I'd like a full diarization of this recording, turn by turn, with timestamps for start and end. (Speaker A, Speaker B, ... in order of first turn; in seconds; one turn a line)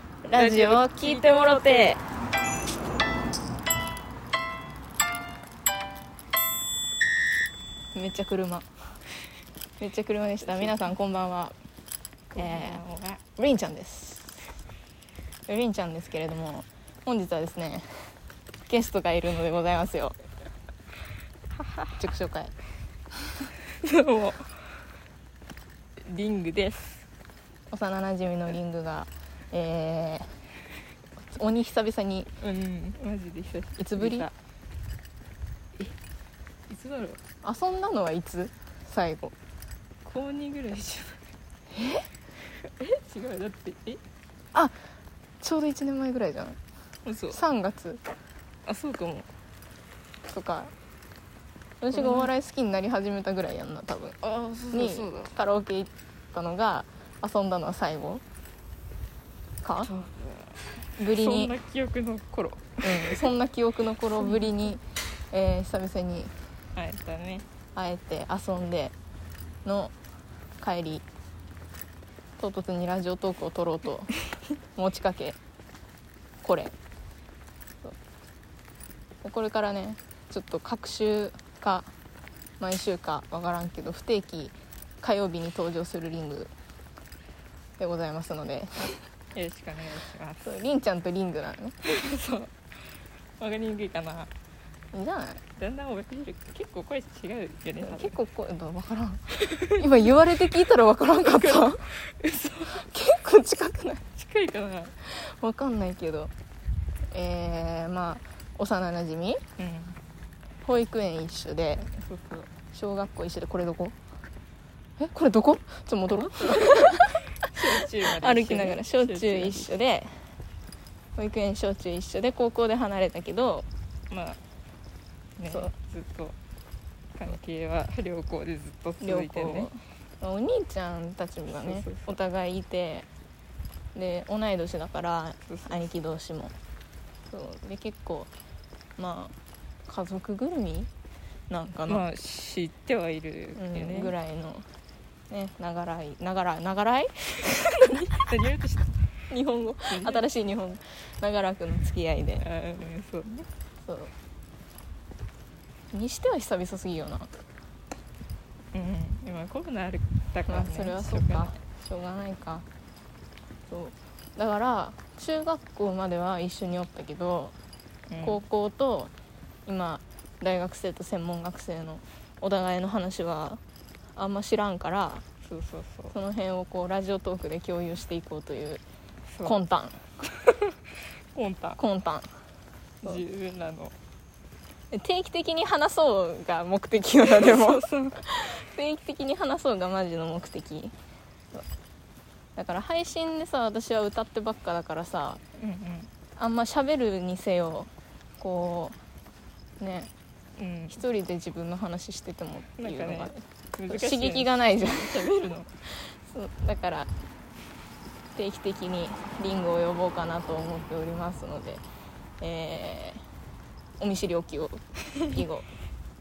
Speaker A: 0.2-2.0
Speaker B: 0.3-2.0
Speaker A: 8.0-8.7
Speaker A: 9.8-11.6
Speaker B: 10.5-10.9
Speaker B: 12.3-13.2
Speaker A: 12.4-12.8
Speaker A: 13.4-14.5
Speaker A: 15.5-18.1
Speaker A: 18.7-20.2
Speaker B: 21.6-22.0
Speaker A: 22.0-22.5
Speaker B: 23.7-24.8
Speaker B: 26.0-27.1
Speaker A: 27.7-30.4
Speaker A: 31.2-32.3
Speaker B: 32.4-34.3
Speaker A: 33.8-34.3
Speaker B: 36.7-37.2
Speaker A: 37.4-39.3
Speaker B: 40.0-41.2
Speaker A: 41.7-42.1
Speaker B: 42.6-44.0
Speaker A: 45.4-46.6
Speaker B: 47.0-47.4
Speaker A: 47.3-48.0
Speaker B: 48.7-49.3
Speaker A: 50.3-50.7
Speaker A: 51.8-54.2
Speaker B: 51.9-52.3
Speaker B: 54.2-55.4
Speaker A: 54.7-58.2
Speaker A: 59.6-59.9
Speaker B: 59.8-63.3
Speaker A: 61.0-61.6
Speaker A: 62.8-66.3
Speaker B: 64.2-64.5
Speaker B: 66.8-67.5
Speaker A: 67.8-68.9
Speaker A: 69.7-69.9
Speaker A: 70.6-71.0
Speaker A: 72.4-74.2
Speaker A: 74.8-75.4
Speaker A: 76.4-76.7
Speaker A: 79.2-81.9
Speaker A: 82.6-86.5
Speaker A: 87.8-89.0
Speaker B: 89.3-90.6
Speaker A: 90.4-91.8
Speaker B: 91.8-92.6
Speaker B: 93.4-94.3
Speaker A: 94.9-95.4
Speaker B: 95.6-98.1
Speaker A: 97.8-101.9
Speaker B: 99.4-100.1
Speaker B: 101.2-102.8
Speaker A: 102.7-104.0
Speaker B: 104.2-105.0
Speaker A: 105.0-106.3
Speaker A: 107.1-109.4
Speaker B: 109.6-110.0
Speaker A: 110.6-111.9
Speaker B: 111.9-112.5
Speaker A: 112.7-114.0
Speaker A: 115.0-120.2
Speaker B: 116.2-119.7
Speaker A: 121.2-123.7
Speaker B: 124.1-124.4
Speaker B: 125.4-126.4
Speaker B: 127.1-129.7
Speaker A: 129.0-133.1
Speaker B: 131.6-132.1
Speaker A: 133.9-136.5
Speaker B: 135.5-135.8
Speaker A: 137.3-138.3
Speaker A: 139.0-139.3
Speaker A: 139.9-140.9
Speaker A: 141.5-142.1
Speaker B: 141.9-144.1
Speaker A: 143.6-144.7
Speaker A: 145.3-148.3
Speaker B: 147.9-149.0
Speaker A: 149.3-152.4
Speaker B: 149.9-150.2
Speaker B: 152.4-153.5
Speaker A: 153.8-154.1
Speaker A: 155.9-157.3
Speaker B: 158.7-161.5
Speaker A: 160.5-162.7
Speaker A: 163.7-167.6
Speaker B: 168.1-168.4
Speaker A: 168.2-169.1
Speaker A: 169.7-173.6
Speaker A: 174.2-175.2
Speaker B: 175.4-176.1
Speaker A: 176.1-178.8
Speaker B: 179.3-179.6
Speaker A: 179.4-180.0
Speaker B: 180.4-180.8
Speaker B: 181.3-181.8
Speaker A: 181.8-182.3
Speaker B: 183.0-183.9
Speaker A: 184.9-190.9
Speaker B: 187.3-188.2
Speaker A: 192.6-195.4
Speaker B: 195.6-196.1
Speaker A: 196.4-199.0
Speaker A: 199.8-200.1
Speaker B: 200.6-201.0
Speaker A: 200.9-203.4
Speaker B: 202.8-205.7
Speaker A: 203.9-205.3
Speaker A: 205.9-207.1
Speaker A: 208.3-211.8
Speaker A: 212.4-213.2
Speaker A: 214.0-215.7